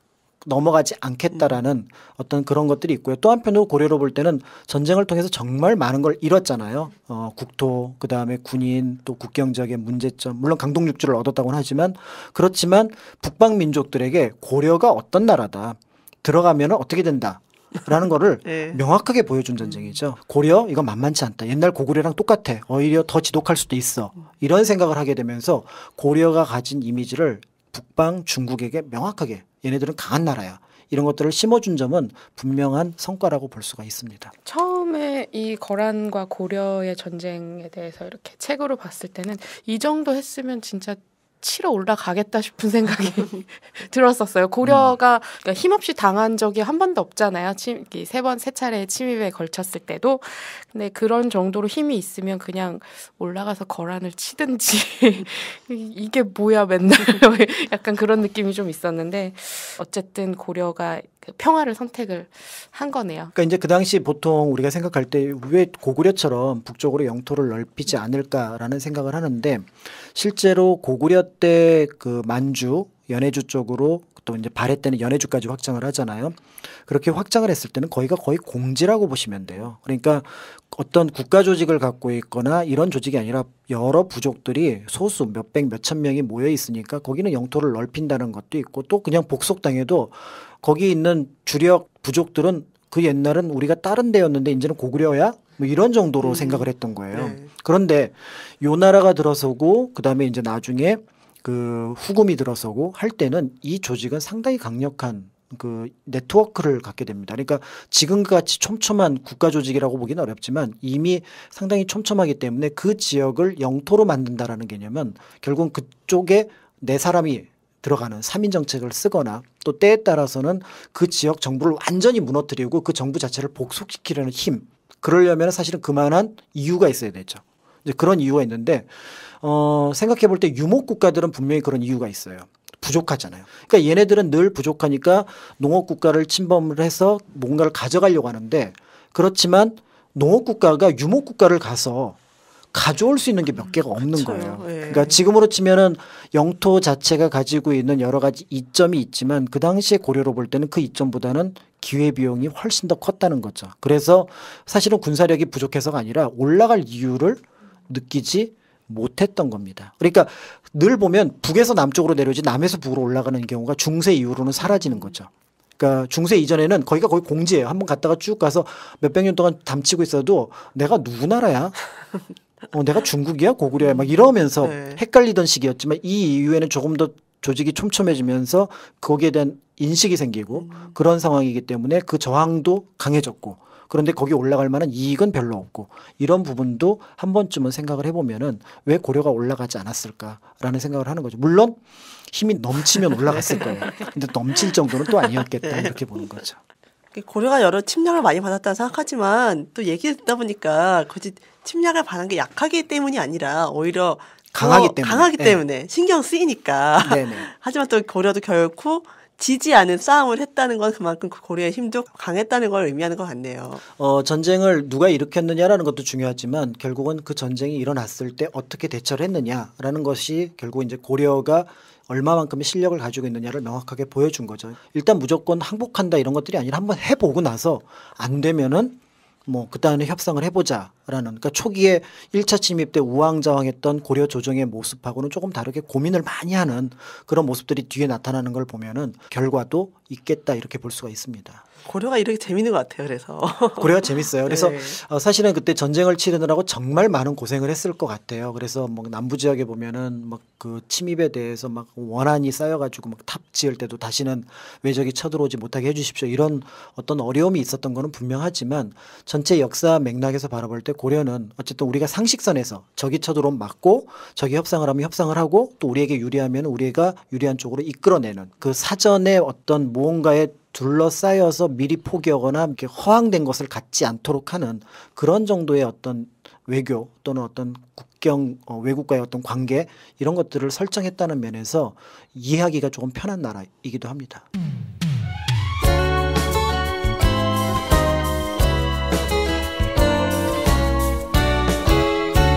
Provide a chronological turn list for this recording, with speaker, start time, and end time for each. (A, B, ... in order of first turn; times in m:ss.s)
0:00.4-0:34.3 A
0:18.4-0:18.8 B
0:34.4-1:03.3 C
0:44.6-0:44.9 A
1:03.3-2:22.2 A
1:36.2-1:37.5 B
2:22.7-2:51.8 A
2:23.7-2:25.2 B
2:52.7-3:11.8 A
2:54.6-2:55.0 B
3:12.3-3:16.6 A
3:13.2-3:14.0 B
3:15.6-3:15.9 B
3:17.1-3:33.8 B
3:24.5-3:25.6 A
3:27.0-3:27.5 A
3:34.0-4:01.6 A
4:01.8-4:05.0 B
4:03.8-4:44.4 A